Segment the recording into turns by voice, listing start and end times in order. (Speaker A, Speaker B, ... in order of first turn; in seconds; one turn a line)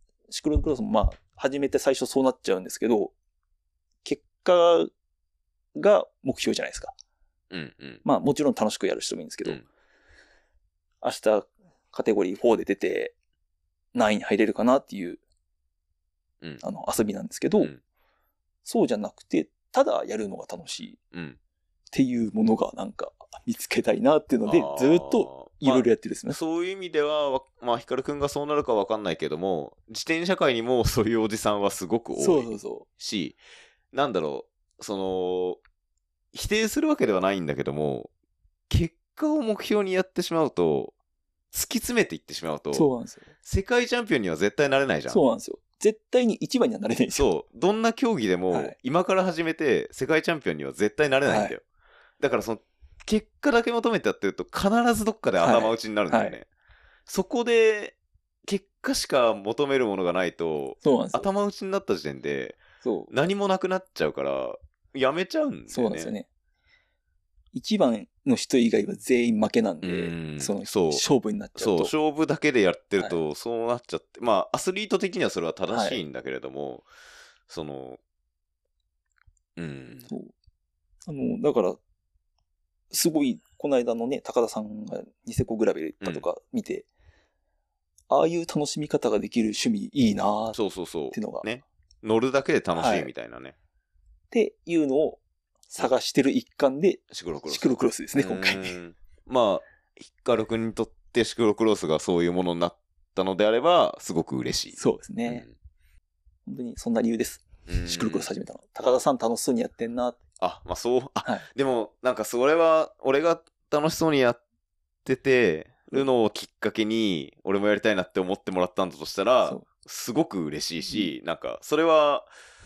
Speaker A: 0.3-3.1
Speaker A: 4.0-4.9
Speaker A: 5.8-6.9
Speaker B: 7.5-8.1
Speaker A: 8.1-9.6
Speaker A: 11.0-13.1
Speaker A: 13.9-15.2
Speaker A: 16.6-17.7
Speaker A: 18.6-21.0
Speaker B: 21.1-21.4
Speaker A: 21.9-26.4
Speaker B: 24.4-33.4
Speaker A: 32.2-32.9
Speaker B: 33.9-35.6
Speaker B: 36.3-38.1
Speaker B: 38.7-40.9
Speaker B: 41.5-42.9
Speaker A: 42.7-43.3
Speaker B: 43.4-45.2
Speaker A: 45.1-47.2
Speaker B: 47.1-51.6
Speaker A: 51.3-51.6
Speaker B: 52.2-56.5
Speaker A: 55.4-56.4
Speaker B: 57.1-66.1
Speaker A: 60.8-61.3
Speaker A: 62.8-63.1
Speaker A: 65.7-66.3
Speaker A: 67.5-71.9
Speaker B: 69.8-71.0
Speaker B: 71.6-76.9
Speaker A: 75.7-76.0
Speaker B: 77.5-78.0
Speaker B: 79.6-80.1
Speaker A: 81.1-81.8
Speaker A: 82.9-86.9
Speaker A: 88.1-90.6
Speaker B: 90.5-93.5
Speaker A: 91.1-91.5
Speaker A: 92.8-93.1
Speaker A: 94.3-98.8
Speaker B: 97.1-105.5
Speaker A: 104.8-105.4
Speaker A: 106.5-110.2
Speaker B: 107.7-108.3
Speaker B: 110.4-114.4
Speaker B: 115.0-122.3